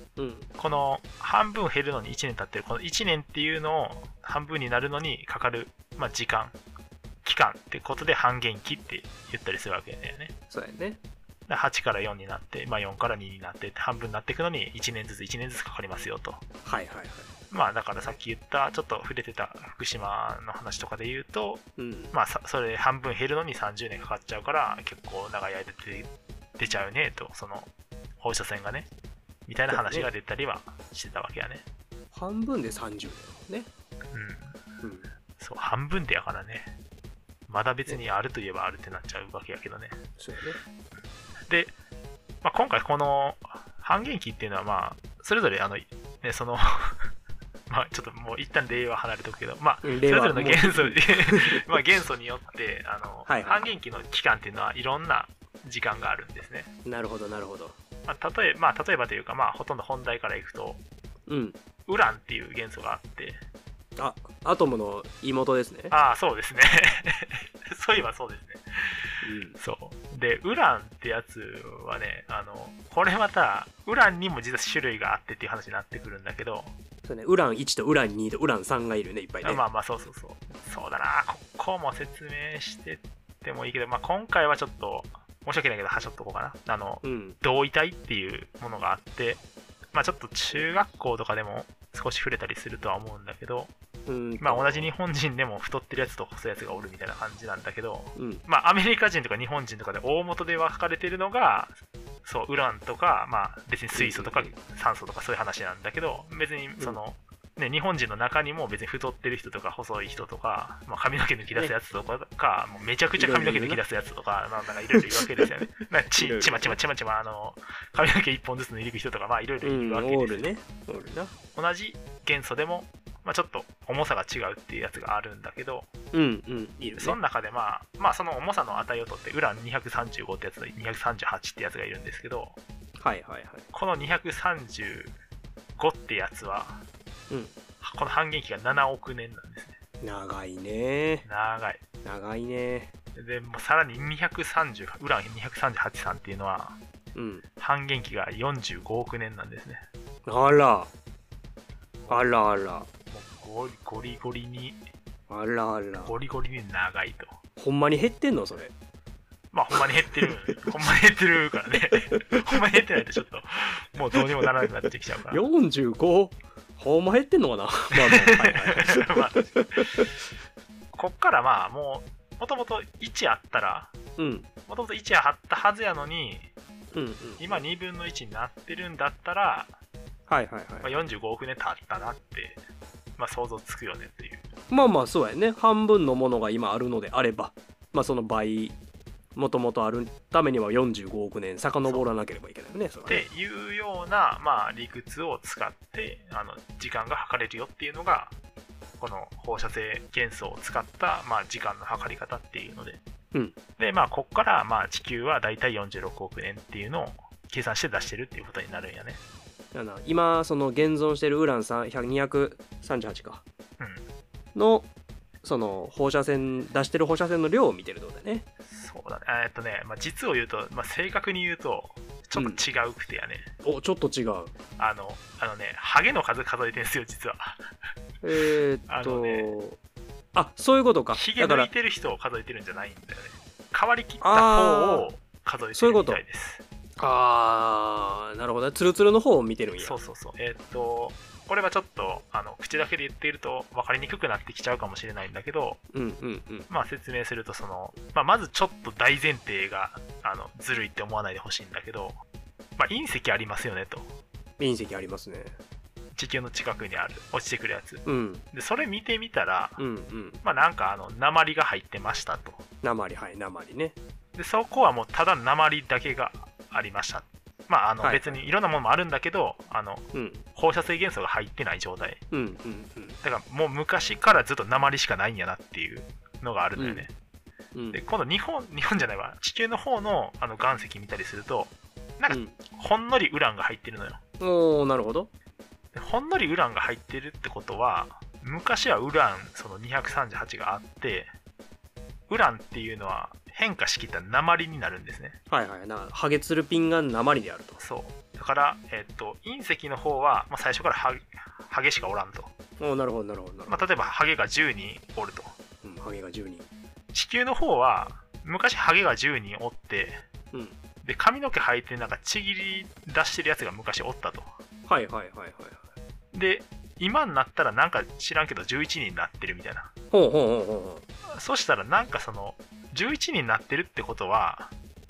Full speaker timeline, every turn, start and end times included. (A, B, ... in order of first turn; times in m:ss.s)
0:00.2-0:00.5 A
0:00.6-0:06.6 B
0:07.2-0:10.3 B
0:10.5-0:11.0 A
0:11.5-0:16.4 B
0:16.6-0:17.3 A
0:17.5-0:27.7 B
0:21.8-0:22.1 A
0:28.2-0:28.9 B
0:29.5-0:31.6 B
0:29.7-0:30.1 A
0:32.1-0:33.7 A
0:34.1-0:34.6 B
0:34.8-0:35.1 A
0:35.4-0:36.7 B
0:37.5-0:40.0 B
0:40.2-0:40.6 A
0:41.5-0:41.7 B
0:42.4-0:47.1 B
0:47.7-0:56.7 B
0:49.8-0:51.6 A
0:53.2-0:53.7 A
0:56.8-0:57.8 A
0:58.0-1:00.8 B
1:01.3-1:01.6 A
1:01.9-1:03.4 B
1:04.0-1:05.9 A
1:05.9-1:16.7 B
1:09.2-1:09.6 A
1:17.0-1:19.6 A
1:19.4-1:29.4 B
1:27.0-1:27.4 A
1:29.9-1:33.7 B
1:34.1-1:34.9 A
1:34.4-2:00.5 B
1:38.2-1:38.4 A
1:43.9-1:44.5 A
1:53.2-1:53.8 A
1:55.0-1:55.4 A
1:56.2-1:56.8 A
1:59.6-2:01.3 A
2:01.5-2:05.9 B
2:06.1-2:07.2 A
2:07.0-2:12.6 B
2:13.0-2:13.7 A
2:13.7-2:15.1 B
2:15.8-2:16.8 B
2:17.3-2:17.5 A
2:17.8-2:19.8 B
2:20.0-2:21.2 A
2:21.2-2:21.8 B
2:22.0-2:22.9 A
2:23.1-2:26.8 B
2:27.1-2:27.4 A
2:27.6-2:29.8 B
2:30.2-2:30.9 A
2:32.0-2:32.3 B
2:32.1-2:32.9 A
2:33.1-2:34.8 B
2:35.3-2:36.1 A
2:36.0-2:37.3 B
2:37.6-2:38.7 A
2:39.5-2:45.4 B
2:42.1-2:42.4 A
2:45.3-2:50.1 A
2:48.0-2:50.1 B
2:50.9-2:53.9 B
2:54.2-2:54.5 A
2:54.7-2:56.5 B
2:56.9-2:57.6 A
2:57.4-2:59.7 B
3:00.3-3:01.0 A
3:00.8-3:02.6 B
3:03.2-3:04.4 B
3:04.7-3:08.8 A
3:09.4-3:13.2 A
3:13.1-3:18.3 B
3:19.0-3:23.0 B
3:23.8-3:29.2 B
3:29.7-3:33.4 A
3:34.5-3:34.9 A
3:35.4-3:38.4 A
3:38.7-3:43.5 B
3:42.3-3:42.6 A
3:43.6-3:44.5 A
3:44.8-3:47.6 B
3:48.2-3:49.8 A
3:48.9-3:49.5 B
3:50.3-3:51.7 A
3:51.1-3:56.6 B
3:54.2-3:55.1 A
3:55.8-3:56.2 A
3:57.0-4:00.0 A
3:59.8-4:05.8 B
4:05.9-4:06.7 A
4:06.7-4:12.2 B
4:12.8-4:14.1 B
4:14.6-4:15.6 A
4:16.1-4:19.8 B
4:18.0-4:18.4 A
4:19.8-4:20.4 A
4:20.4-4:22.6 B
4:22.8-4:24.0 A
4:24.3-4:32.2 B
4:28.0-4:28.4 A
4:30.1-4:30.4 A
4:32.3-4:33.2 A
4:33.2-4:37.1 B
4:36.8-4:37.1 A
4:37.7-4:38.0 A
4:37.9-4:44.2 B
4:42.3-4:42.6 A
4:44.4-4:45.3 A
4:45.9-4:51.3 B
4:52.3-4:55.4 B
4:55.5-4:57.8 A
4:57.8-5:02.5 B
5:02.8-5:03.8 A
5:03.7-5:05.5 B
5:05.8-5:06.7 A
5:07.1-5:10.2 B
5:11.0-5:14.5 B
5:14.9-5:15.8 A
5:16.3-5:19.9 B
5:20.1-5:21.0 A
5:21.3-5:24.7 B